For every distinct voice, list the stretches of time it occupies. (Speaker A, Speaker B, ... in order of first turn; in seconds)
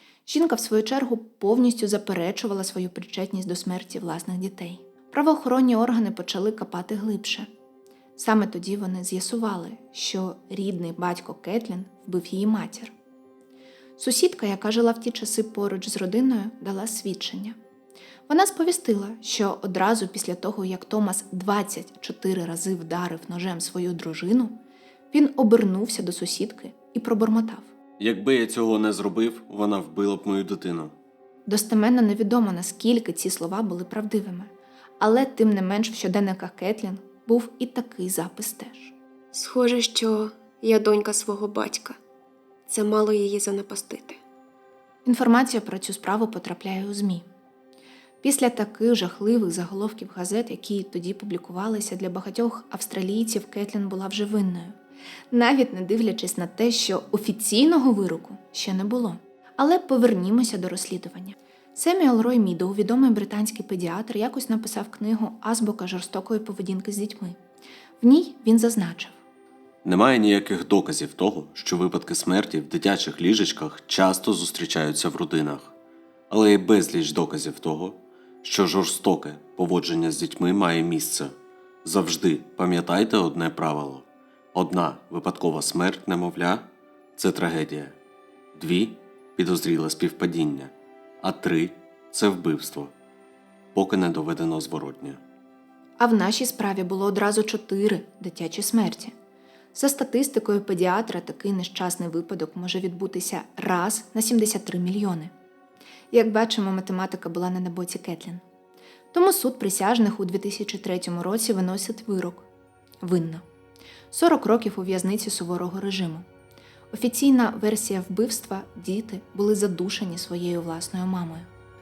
Speaker A: 0.2-7.5, 8.2-12.9, 14.0-17.6, 18.3-24.5, 25.1-27.7, 31.5-38.9, 45.0-47.2, 48.2-54.8, 55.3-67.4, 68.0-69.2, 96.0-99.1, 99.7-105.3, 106.1-108.4, 109.1-112.5, 113.0-113.4, 114.1-116.2, 116.9-121.5
Speaker B: 28.0-30.9, 69.8-75.7, 76.3-88.0, 88.5-92.9, 93.7-95.2
Speaker C: 39.3-42.0, 42.7-44.2